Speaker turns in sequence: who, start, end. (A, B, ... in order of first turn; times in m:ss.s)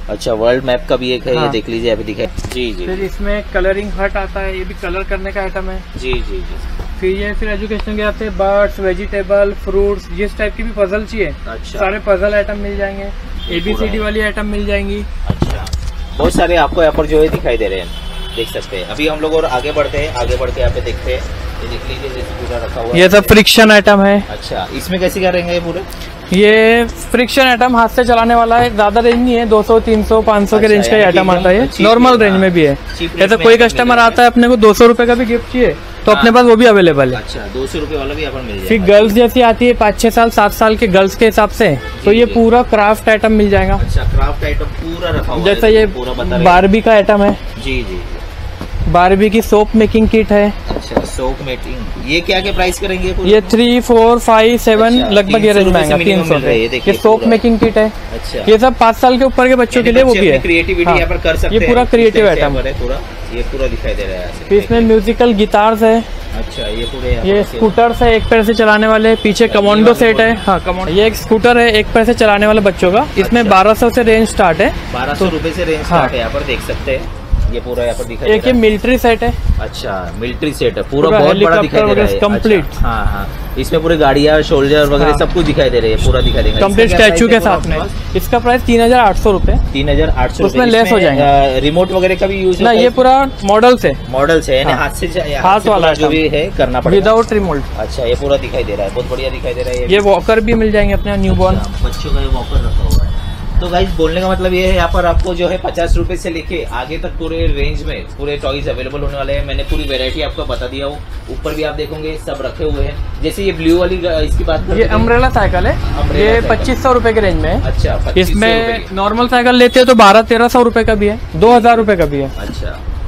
0:00.1-0:03.1 A
0:01.3-0:01.6 B
0:02.8-0:05.8 B
0:06.0-0:06.7 A
0:07.0-0:15.1 B
0:11.4-0:11.9 A
0:13.5-0:14.1 A
0:15.2-0:23.4 A
0:22.9-0:24.3 B
0:24.3-0:25.9 A
0:26.3-0:37.2 B
0:30.5-0:34.2 A
0:36.1-0:36.4 A
0:37.1-0:39.2 A
0:38.7-0:43.8 B
0:42.0-0:42.4 A
0:43.8-0:46.7 A
0:45.4-0:47.4 B
0:47.6-0:48.2 A
0:48.9-0:50.6 B
0:50.7-0:53.6 A
0:53.2-0:57.9 B
0:54.7-0:57.4 A
0:58.1-0:58.6 A
0:58.5-1:02.6 B
0:59.7-1:04.9 A
1:04.5-1:06.1 B
1:06.3-1:07.8 A
1:07.2-1:15.3 B
1:09.5-1:10.4 A
1:13.2-1:13.6 A
1:14.9-1:18.6 A
1:15.9-1:16.1 B
1:18.3-1:19.4 B
1:19.6-1:27.9 A
1:21.0-1:22.8 B
1:25.0-1:25.2 B
1:26.6-1:29.6 B
1:29.7-1:33.0 A
1:30.4-1:31.3 B
1:32.6-1:34.0 B
1:34.1-1:37.2 A
1:35.4-1:36.2 B
1:36.9-1:37.7 B
1:37.7-1:40.1 A
1:39.9-1:41.6 B
1:41.3-1:55.1 A
1:54.7-1:57.6 B
1:55.8-1:56.8 A
1:57.6-1:58.9 A
1:58.2-2:02.3 B
2:01.4-2:02.8 A